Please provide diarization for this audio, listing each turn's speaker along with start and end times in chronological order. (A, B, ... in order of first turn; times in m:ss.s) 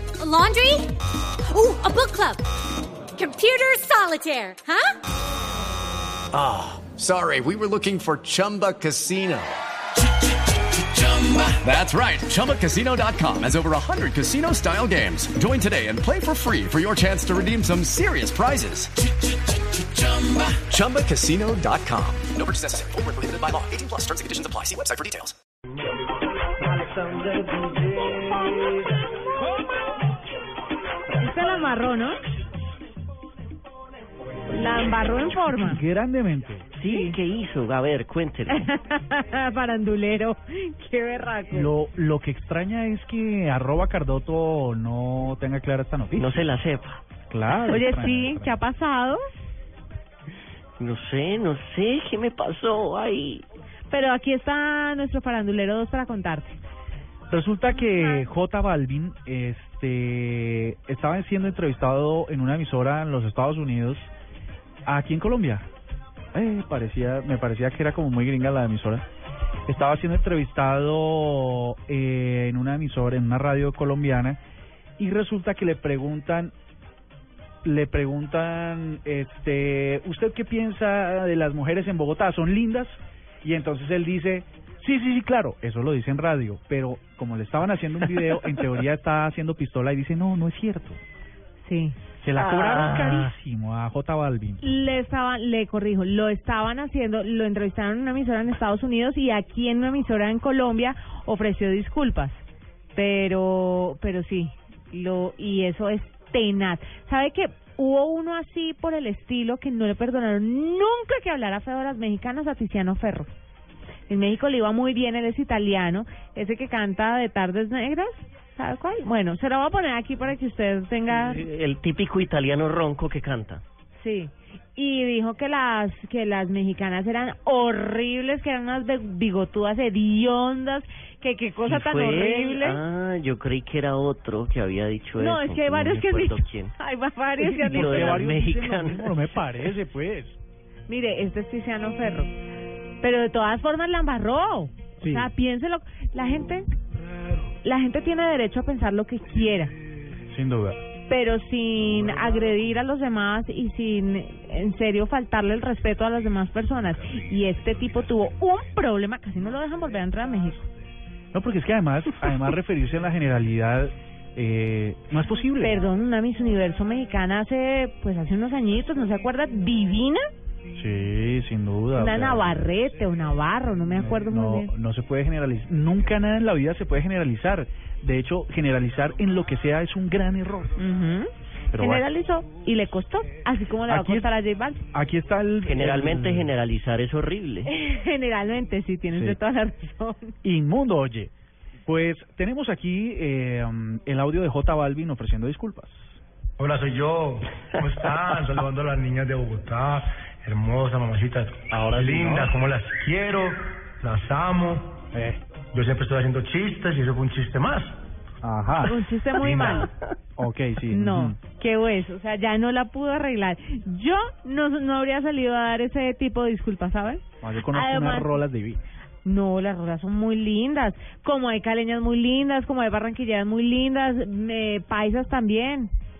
0:00.2-0:00.9 A
0:01.5-0:02.4 A
0:03.2-0:05.0 A
0:06.3-0:09.6 B
0:10.8-0:18.9 B
0:19.7-0:25.3 B
0:26.6-0:28.9 C
0:31.2-0:32.2 D
0:34.5-0:35.8 D
0:35.5-0:36.7 E
0:36.8-0:38.7 F
0:36.8-0:37.2 D
0:38.5-0:41.7 D
0:41.5-0:46.5 E
0:46.2-0:47.0 F
0:47.3-0:48.6 E
0:47.6-0:49.2 D
0:50.8-0:53.4 F
0:53.9-0:56.6 D
0:57.3-1:04.1 E
1:04.9-1:05.6 E
1:06.3-1:09.0 E
1:09.7-1:14.4 E
1:15.0-1:16.5 E
1:17.6-1:31.0 E
1:31.6-1:32.0 D
1:32.2-1:34.7 E
1:32.4-1:33.3 F
1:34.6-1:42.4 D
1:42.9-1:53.3 D
1:54.1-2:01.4 D
2:01.1-2:03.6 F
2:04.0-2:12.8 D
2:11.6-2:16.7 F
2:15.2-2:18.2 D
2:17.4-2:20.4 E
2:17.7-2:19.2 F
2:20.9-2:22.3 D
2:23.0-2:26.7 D
2:25.0-2:25.3 E
2:27.6-2:29.7 D
2:30.3-2:30.8 E
2:31.1-2:40.7 D
2:41.3-2:45.8 E
2:45.6-2:50.2 D
2:50.7-2:52.7 E
2:51.9-2:54.7 D
2:54.0-3:00.7 E
3:00.8-3:04.8 D
3:01.7-3:02.0 E
3:03.8-3:04.3 E
3:04.9-3:06.5 E
3:05.6-3:07.7 F
3:07.7-3:10.3 D
3:09.1-3:09.4 E
3:10.4-3:11.3 E
3:11.8-3:16.2 E
3:16.6-3:25.0 C
3:21.7-3:22.5 E
3:25.1-3:25.4 E
3:25.7-3:27.9 C
3:28.4-3:29.6 E
3:28.8-3:29.9 D
3:29.4-3:29.9 C
3:30.4-3:31.4 E
3:30.9-3:38.4 D
3:37.4-3:38.8 E
3:39.2-3:45.9 D